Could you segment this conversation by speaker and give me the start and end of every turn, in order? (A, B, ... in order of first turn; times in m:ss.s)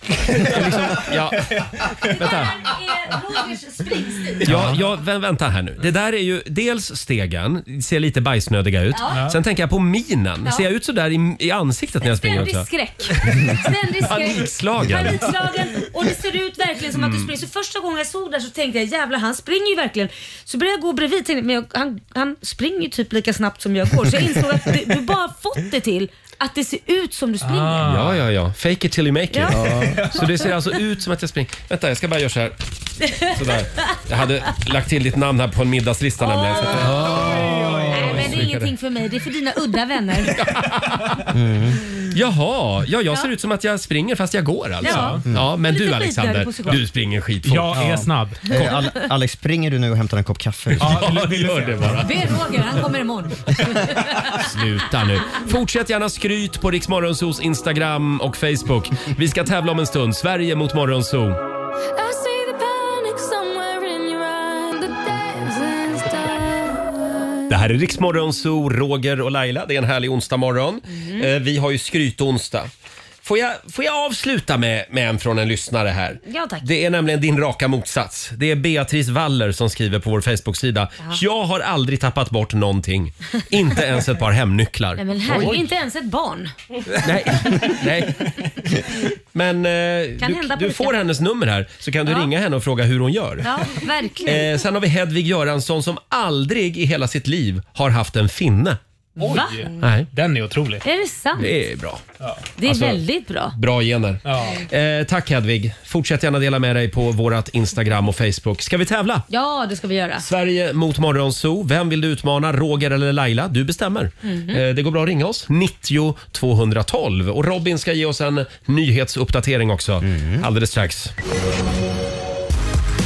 0:00.3-0:02.6 A
0:02.0-0:04.5 B
0:04.4-0:12.7 A
0:08.9-0:09.2 B
0:09.1-0:09.4 C
0:12.0-0:27.9 B
0:13.2-0:13.5 A
0:14.0-0:15.3 A
0:16.9-0:17.3 A
0:27.4-0:28.2 C
0:27.8-0:32.6 A
0:29.3-0:29.6 B
0:29.6-0:30.1 D
0:29.8-0:30.2 C
0:30.2-0:30.5 B
0:33.2-0:38.6 A
0:36.2-0:37.2 B
0:36.8-0:38.6 C
0:37.9-0:40.4 B
0:40.2-0:41.3 A
0:41.3-0:41.8 D
0:42.1-0:47.9 A
0:44.8-0:46.8 B
0:44.8-0:45.2 C
0:47.4-0:48.6 C
0:47.7-0:51.1 D
0:50.8-0:52.4 A
0:50.8-0:52.0 C
0:52.0-0:54.4 B
0:54.3-1:01.4 A
1:02.0-1:07.0 E
1:07.5-1:12.7 A
1:10.9-1:11.3 B
1:13.2-1:25.6 A
1:16.2-1:16.6 B
1:25.0-1:26.5 B
1:27.0-1:28.3 A
1:29.3-1:33.5 A
1:30.2-1:31.0 B
1:33.4-1:34.5 B
1:34.2-1:38.8 A
1:39.2-1:40.8 C
1:39.2-1:39.7 B
1:39.8-1:40.1 A
1:40.8-1:41.5 B
1:41.4-1:42.0 A
1:42.6-1:43.6 B
1:42.6-1:43.0 A
1:43.5-1:49.3 A
1:44.2-1:44.6 C
1:49.3-1:50.2 B
1:50.2-2:01.1 A
1:54.2-1:54.6 B
2:00.0-2:00.5 D